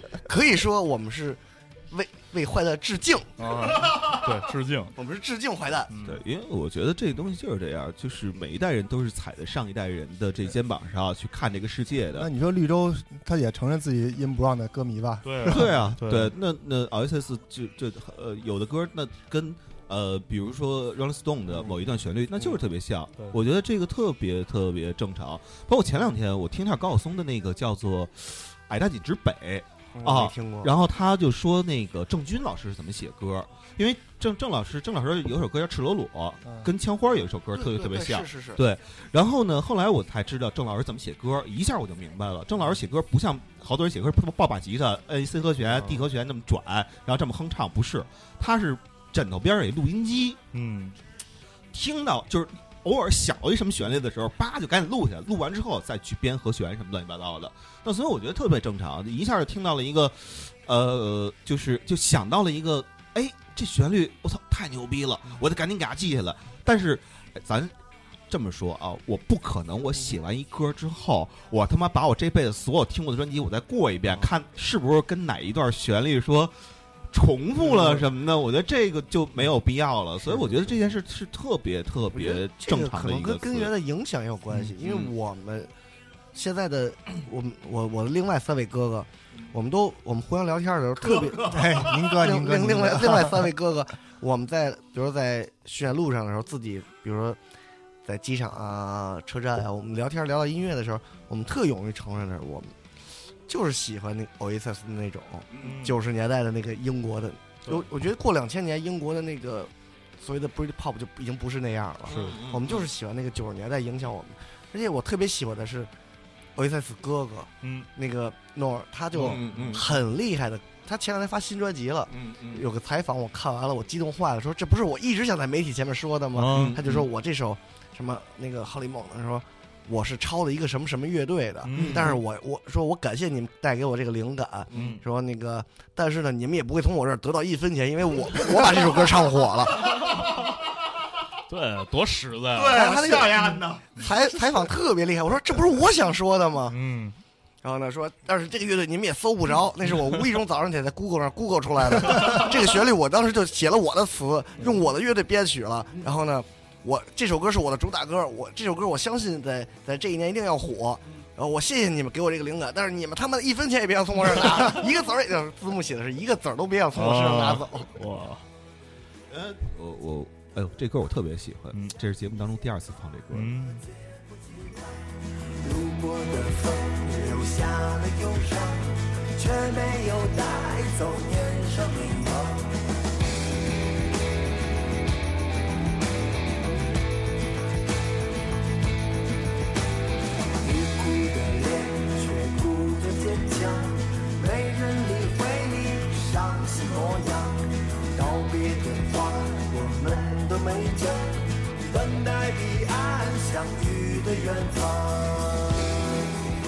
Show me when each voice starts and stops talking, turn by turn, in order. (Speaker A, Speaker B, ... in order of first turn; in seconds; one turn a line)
Speaker A: 0.2-3.5
Speaker B: 3.4-4.9
Speaker C: 3.6-4.3
Speaker A: 5.0-5.9
Speaker B: 5.9-6.2
Speaker C: 6.0-12.3
Speaker D: 12.2-16.0
Speaker B: 15.2-16.3
Speaker C: 15.4-50.4
Speaker A: 30.0-30.7
Speaker A: 37.5-38.6
Speaker B: 50.5-51.0
Speaker C: 51.7-67.7
Speaker C: 68.3-76.6
Speaker C: 77.1-83.7
Speaker A: 77.7-78.1
Speaker A: 82.1-85.7
Speaker C: 84.8-85.1
Speaker A: 86.3-97.4
Speaker C: 91.0-92.1
Speaker D: 91.4-93.5
Speaker A: 98.1-102.8
Speaker A: 103.5-115.9
Speaker B: 105.6-106.0
Speaker C: 112.1-112.9
Speaker B: 112.1-112.4
Speaker A: 116.6-140.1
Speaker B: 117.6-117.9
Speaker C: 119.2-119.8
Speaker B: 119.2-119.8
Speaker C: 122.1-122.6
Speaker B: 126.3-126.8
Speaker C: 126.5-127.0
Speaker B: 131.6-132.2
Speaker C: 131.7-132.2
Speaker C: 134.7-135.0
Speaker B: 134.7-135.0
Speaker C: 139.8-140.5
Speaker B: 141.5-142.8
Speaker C: 142.5-143.9
Speaker A: 142.7-146.8
Speaker B: 146.7-147.2
Speaker A: 147.6-168.0
Speaker B: 166.9-168.4
Speaker C: 169.3-173.6
Speaker B: 173.3-173.9
Speaker E: 175.6-182.8
Speaker E: 190.6-205.9